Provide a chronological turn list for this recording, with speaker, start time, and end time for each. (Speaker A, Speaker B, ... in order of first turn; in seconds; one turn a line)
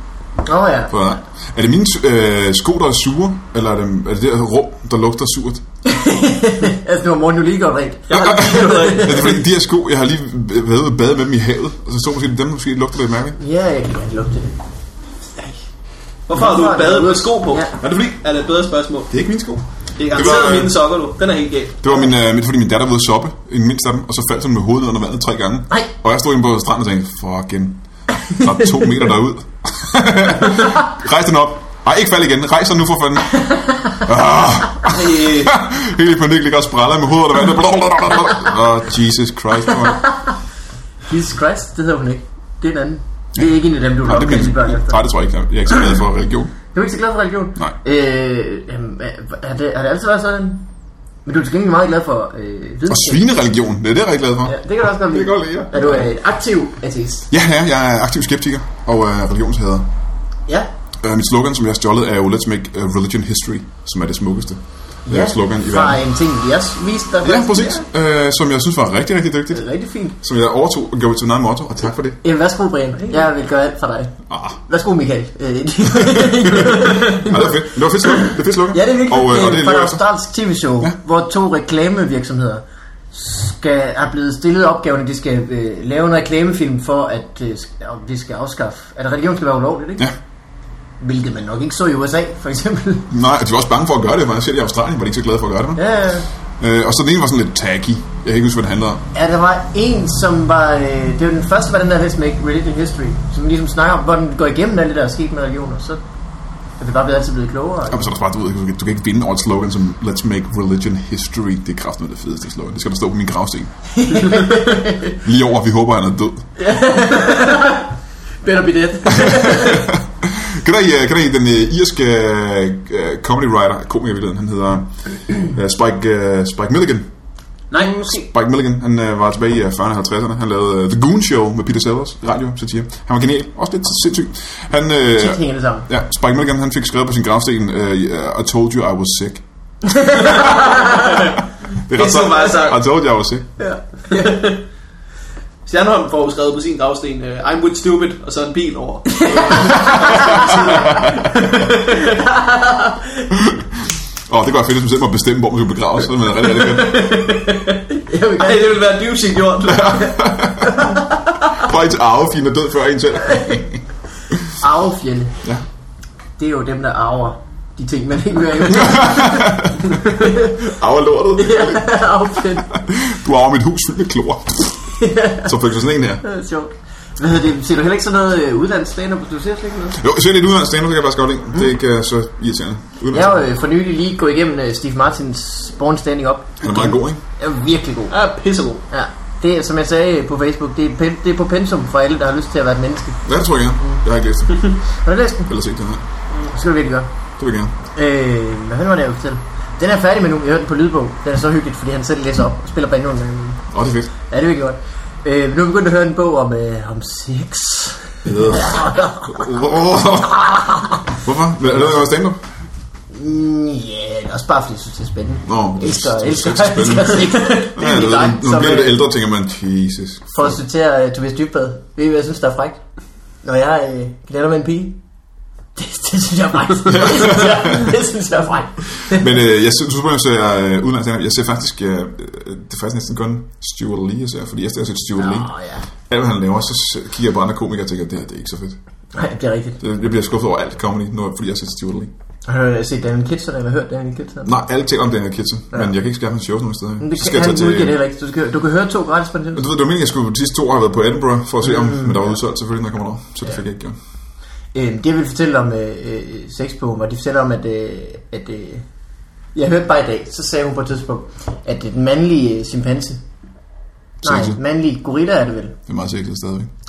Speaker A: 0.5-0.9
Speaker B: 0.9-5.6
Speaker A: 5.8-9.4
Speaker C: 8.1-9.4
Speaker B: 8.1-13.4
Speaker A: 13.4-14.6
Speaker A: 15.3-15.6
Speaker C: 16.3-19.1
Speaker A: 16.3-17.7
Speaker B: 17.8-18.2
Speaker B: 19.1-20.7
Speaker C: 20.0-21.8
Speaker B: 21.8-40.0
Speaker A: 28.2-29.0
Speaker A: 33.4-34.0
Speaker C: 34.9-35.5
Speaker A: 40.1-40.3
Speaker A: 41.1-45.0
Speaker B: 44.0-46.5
Speaker A: 46.7-50.6
Speaker A: 51.2-53.2
Speaker B: 52.9-56.1
Speaker A: 54.5-57.3
Speaker B: 57.3-59.9
Speaker B: 61.0-66.0
Speaker A: 65.0-67.8
Speaker B: 67.2-72.2
Speaker A: 69.5-70.2
Speaker A: 72.2-90.1
Speaker B: 74.3-74.6
Speaker B: 76.0-80.0
Speaker A: 91.0-93.1
Speaker B: 93.1-95.8
Speaker A: 95.8-96.3
Speaker B: 96.6-99.0
Speaker A: 99.1-106.0
Speaker A: 106.8-108.1
Speaker B: 107.9-113.7
Speaker A: 113.9-115.1
Speaker B: 115.1-116.5
Speaker A: 116.6-117.9
Speaker A: 118.4-119.9
Speaker B: 119.1-127.1
Speaker C: 127.7-128.1
Speaker A: 127.8-128.2
Speaker B: 127.9-139.4
Speaker A: 135.2-135.9
Speaker A: 139.8-141.3
Speaker B: 140.2-141.0
Speaker C: 140.2-141.3
Speaker B: 141.9-143.5
Speaker C: 141.9-142.8
Speaker A: 143.6-144.5
Speaker C: 144.1-144.6
Speaker C: 145.7-152.2
Speaker A: 149.1-151.3
Speaker B: 149.6-151.3
Speaker A: 151.9-153.3
Speaker B: 153.3-157.2
Speaker C: 156.3-160.2
Speaker A: 157.9-158.8
Speaker B: 159.7-164.6
Speaker A: 160.6-161.7
Speaker A: 163.3-163.6
Speaker A: 164.6-165.4
Speaker A: 166.4-170.6
Speaker B: 168.7-176.2
Speaker A: 171.4-172.7
Speaker A: 175.0-175.5
Speaker A: 176.2-180.0
Speaker B: 179.9-183.4
Speaker A: 183.1-188.1
Speaker B: 186.6-187.2
Speaker C: 188.1-188.8
Speaker A: 188.9-193.2
Speaker B: 193.2-194.7
Speaker A: 195.0-195.5
Speaker B: 195.5-196.0
Speaker A: 196.5-197.1
Speaker B: 197.4-197.7
Speaker A: 197.9-203.6
Speaker B: 203.7-204.1
Speaker A: 204.3-209.6
Speaker B: 208.2-212.4
Speaker A: 210.2-211.1
Speaker A: 213.1-219.0
Speaker B: 215.5-220.6
Speaker A: 220.3-222.8
Speaker A: 223.4-225.0
Speaker A: 225.8-229.3
Speaker B: 226.9-227.9
Speaker B: 229.1-235.5
Speaker A: 235.2-235.8
Speaker B: 236.1-238.8
Speaker A: 239.1-239.8
Speaker B: 239.8-242.1
Speaker A: 242.5-244.5
Speaker B: 244.4-248.0
Speaker A: 247.0-249.7
Speaker B: 249.5-253.9
Speaker A: 251.7-252.3
Speaker A: 254.7-258.9
Speaker A: 259.5-263.2
Speaker B: 264.2-264.6
Speaker A: 264.2-265.8
Speaker B: 265.9-266.7